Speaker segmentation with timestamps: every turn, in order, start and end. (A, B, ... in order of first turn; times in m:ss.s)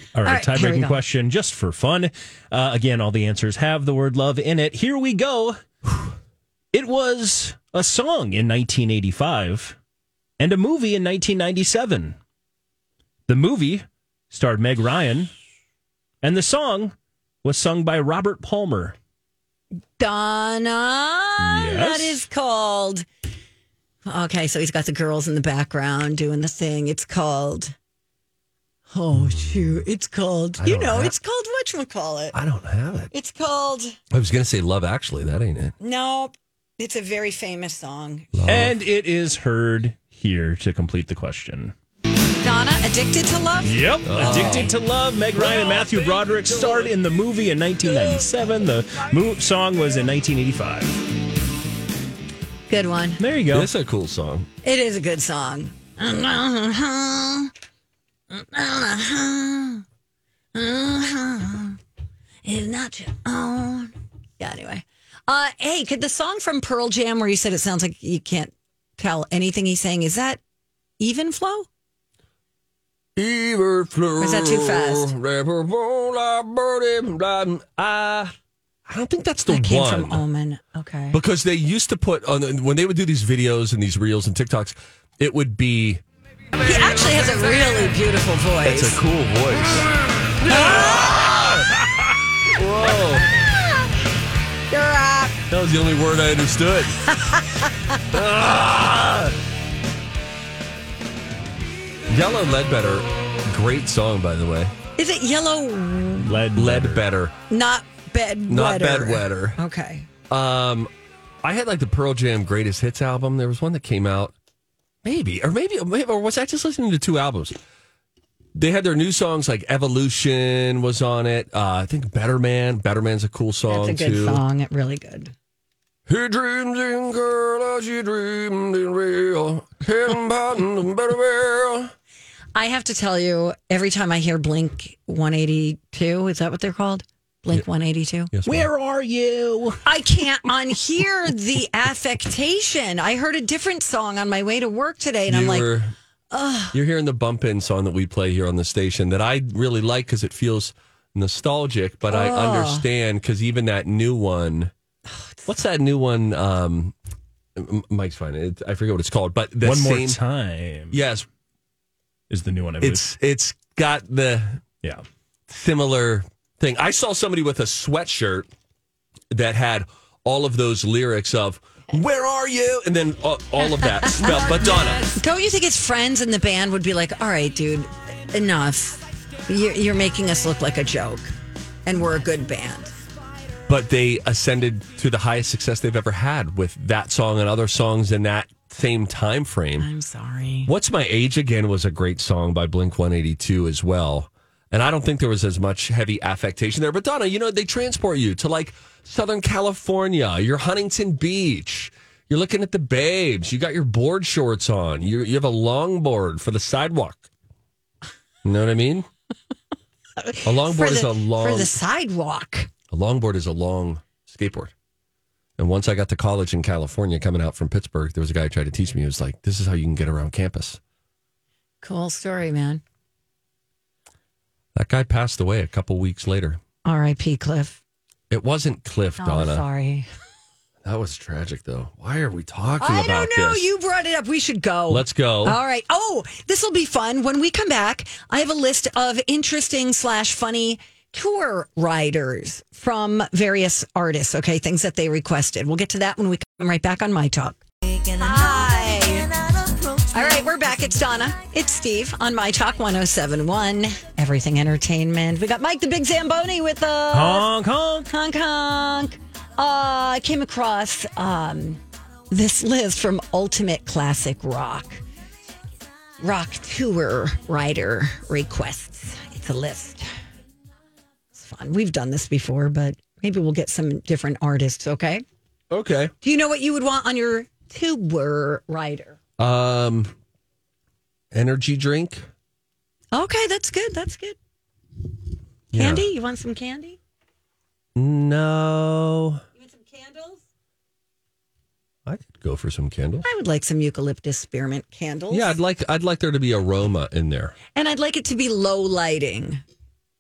0:00.1-0:05.6 A
0:00.2-0:01.0 B
0:06.7-0:09.8 A
0:10.4-0:12.2 A
0:13.3-0:15.3 A
0:16.2-0:18.9 A
0:20.0-0:23.1 B
0:21.4-0:22.2 A
0:24.0-0:27.7 B
0:28.9-0:32.4 B
0:29.2-0:29.8 C
0:30.6-0:31.1 C
0:32.3-0:33.1 C
0:33.1-0:34.0 B
0:34.1-0:35.8 C
0:35.8-0:38.3 B
0:38.3-0:38.7 C
0:38.5-0:41.7 A
0:42.4-0:44.7 B
0:43.6-0:51.0 A
0:44.0-0:44.8 C
0:45.4-0:46.8 C
0:52.7-0:53.2 B
0:53.2-0:53.7 A
0:53.5-0:54.5 C
0:54.6-0:57.5 B
0:58.3-0:59.8 B
1:00.5-1:01.8 B
1:02.4-1:10.4 B
1:11.0-1:11.7 B
1:13.2-1:18.3 C
1:14.2-1:15.1 B
1:18.8-1:20.2 C
1:19.5-1:21.2 B
1:21.1-1:26.0 C
1:26.6-1:29.0 B
1:28.6-1:33.3 C
1:30.4-1:31.1 B
1:33.2-1:33.9 B
1:34.7-1:35.4 B
1:35.5-1:37.0 C
1:37.0-1:38.0 B
1:38.1-1:39.3 C
1:42.1-1:44.7 C
1:45.0-1:46.4 B
1:46.2-1:47.0 A
1:46.5-1:47.3 C
1:47.5-1:50.1 B
1:48.5-1:49.6 C
1:50.3-1:50.9 C
1:51.4-1:54.3 C
1:55.0-1:57.6 C
1:58.5-2:04.4 C
2:03.7-2:05.3 B
2:06.1-2:11.9 C
2:12.5-2:18.3 B
2:18.3-2:18.7 C
2:18.4-2:19.8 A
2:19.8-2:25.8 B
2:25.3-2:25.9 C
2:26.3-2:26.8 B
2:26.7-2:34.7 C
2:32.1-2:32.8 B
2:35.5-2:36.9 C
2:37.6-2:40.2 C
2:39.6-2:41.0 A
2:40.9-2:41.3 C
2:42.3-2:43.0 A
2:42.8-2:44.6 C
2:45.5-2:48.5 C
2:49.3-2:55.1 C
2:53.8-3:01.3 B
3:01.8-3:03.0 B
3:03.7-3:09.9 C
3:09.8-3:10.7 B
3:10.6-3:27.3 C
3:28.4-3:29.1 C
3:30.2-3:32.7 B
3:30.4-3:31.7 C
3:32.9-3:34.7 C
3:35.6-3:40.8 C
3:41.8-3:42.8 B
3:44.8-3:46.6 C
3:46.8-3:47.8 B
3:48.3-3:49.6 C
3:49.2-3:50.1 B
3:50.8-3:53.6 C
3:52.8-4:17.5 B
3:54.9-3:55.6 C
4:17.1-4:18.1 A
4:18.1-4:25.0 B
4:26.2-4:30.0 B
4:31.3-4:35.2 B
4:35.7-4:36.1 C
4:36.2-4:39.2 B
4:39.4-4:40.1 C
4:41.3-4:42.2 C
4:43.1-4:44.4 B
4:45.7-4:46.1 C
4:45.7-4:47.0 B
4:48.0-4:49.4 C
4:49.6-4:50.4 B
4:52.0-4:53.2 C
4:53.2-4:55.5 B
4:55.3-4:57.6 C
4:57.7-4:59.6 B